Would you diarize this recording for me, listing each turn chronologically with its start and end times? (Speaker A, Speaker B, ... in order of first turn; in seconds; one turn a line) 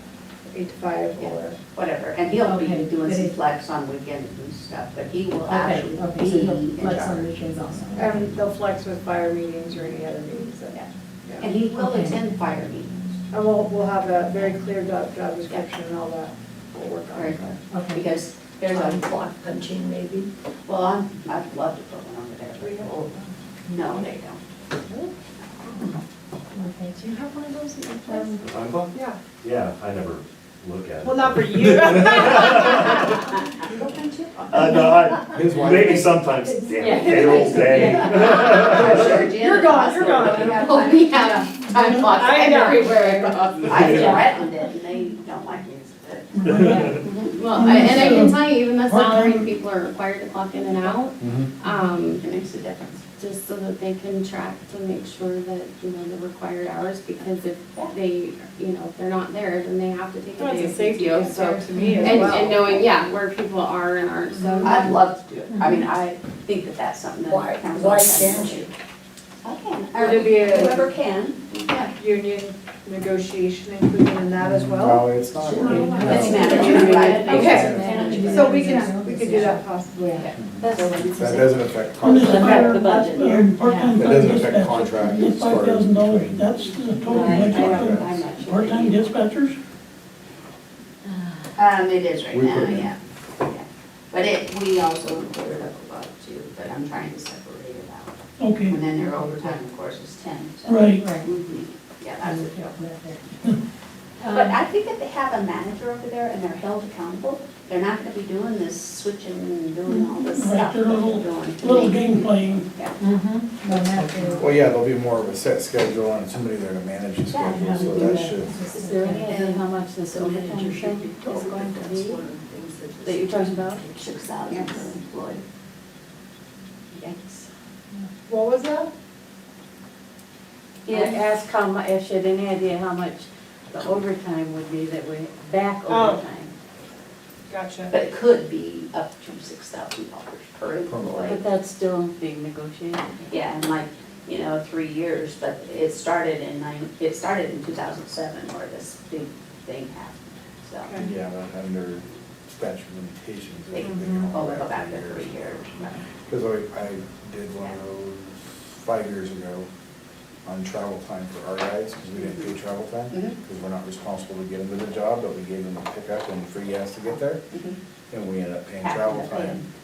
Speaker A: 0.5-1.6
Speaker B: 1.1-7.3
Speaker C: 2.3-3.4
Speaker C: 5.5-8.3
Speaker A: 7.9-11.5
Speaker B: 11.4-13.2
Speaker C: 11.8-12.2
Speaker A: 13.3-17.6
Speaker B: 14.3-14.6
Speaker B: 17.1-19.1
Speaker C: 17.7-18.0
Speaker D: 18.7-20.3
Speaker B: 20.7-23.1
Speaker A: 22.6-23.3
Speaker B: 23.7-24.4
Speaker A: 24.9-25.1
Speaker A: 25.7-25.9
Speaker C: 26.5-27.0
Speaker A: 27.0-28.3
Speaker C: 28.1-28.4
Speaker E: 28.4-33.2
Speaker A: 28.9-29.2
Speaker A: 31.0-34.9
Speaker E: 34.5-39.0
Speaker F: 35.3-36.2
Speaker C: 36.6-38.1
Speaker A: 36.9-41.2
Speaker B: 37.3-46.4
Speaker G: 40.5-44.1
Speaker A: 42.2-43.1
Speaker E: 43.6-44.2
Speaker C: 43.8-44.3
Speaker H: 46.4-46.9
Speaker C: 46.5-47.0
Speaker E: 46.5-47.1
Speaker B: 46.9-47.4
Speaker G: 47.3-52.2
Speaker H: 47.5-49.5
Speaker F: 51.2-51.5
Speaker B: 52.2-53.0
Speaker G: 53.1-65.0
Speaker A: 60.4-62.8
Speaker C: 61.7-62.2
Speaker B: 62.5-63.0
Speaker A: 64.3-64.8
Speaker B: 64.6-68.7
Speaker C: 65.5-65.8
Speaker D: 67.3-68.7
Speaker B: 69.4-71.9
Speaker A: 69.9-70.9
Speaker A: 72.0-77.7
Speaker F: 74.4-76.5
Speaker C: 75.6-80.3
Speaker B: 76.0-78.8
Speaker H: 76.2-76.9
Speaker D: 76.5-77.2
Speaker F: 77.3-78.0
Speaker I: 77.9-78.4
Speaker A: 78.3-80.2
Speaker B: 80.2-81.4
Speaker F: 80.4-82.8
Speaker A: 80.8-81.1
Speaker H: 82.0-89.6
Speaker B: 82.2-83.4
Speaker I: 82.8-83.2
Speaker C: 83.6-84.1
Speaker F: 83.9-86.5
Speaker B: 87.0-89.1
Speaker I: 87.2-88.0
Speaker F: 87.6-88.0
Speaker B: 91.5-102.7
Speaker F: 92.3-92.9
Speaker H: 98.4-98.8
Speaker H: 100.6-101.1
Speaker C: 101.0-101.2
Speaker C: 102.2-103.2
Speaker C: 104.2-104.6
Speaker B: 104.3-113.0
Speaker H: 109.8-112.7
Speaker C: 113.0-114.5
Speaker F: 114.4-118.6
Speaker B: 117.3-118.3
Speaker C: 117.5-119.3
Speaker I: 118.7-122.3
Speaker B: 119.2-121.5
Speaker D: 120.2-123.5
Speaker I: 123.0-123.9
Speaker B: 123.9-125.4
Speaker D: 124.5-124.9
Speaker A: 128.2-128.9
Speaker B: 130.8-131.2
Speaker I: 130.9-136.5
Speaker A: 135.9-136.2
Speaker A: 137.5-137.9
Speaker B: 137.9-141.4
Speaker F: 140.9-141.3
Speaker I: 141.2-143.3
Speaker B: 143.3-151.0
Speaker F: 151.0-155.5
Speaker B: 153.7-156.0
Speaker A: 153.8-154.3
Speaker F: 156.2-159.7
Speaker F: 160.4-167.4
Speaker B: 162.2-162.5
Speaker B: 163.1-163.3
Speaker B: 167.5-167.8
Speaker F: 168.1-169.6
Speaker B: 168.8-169.7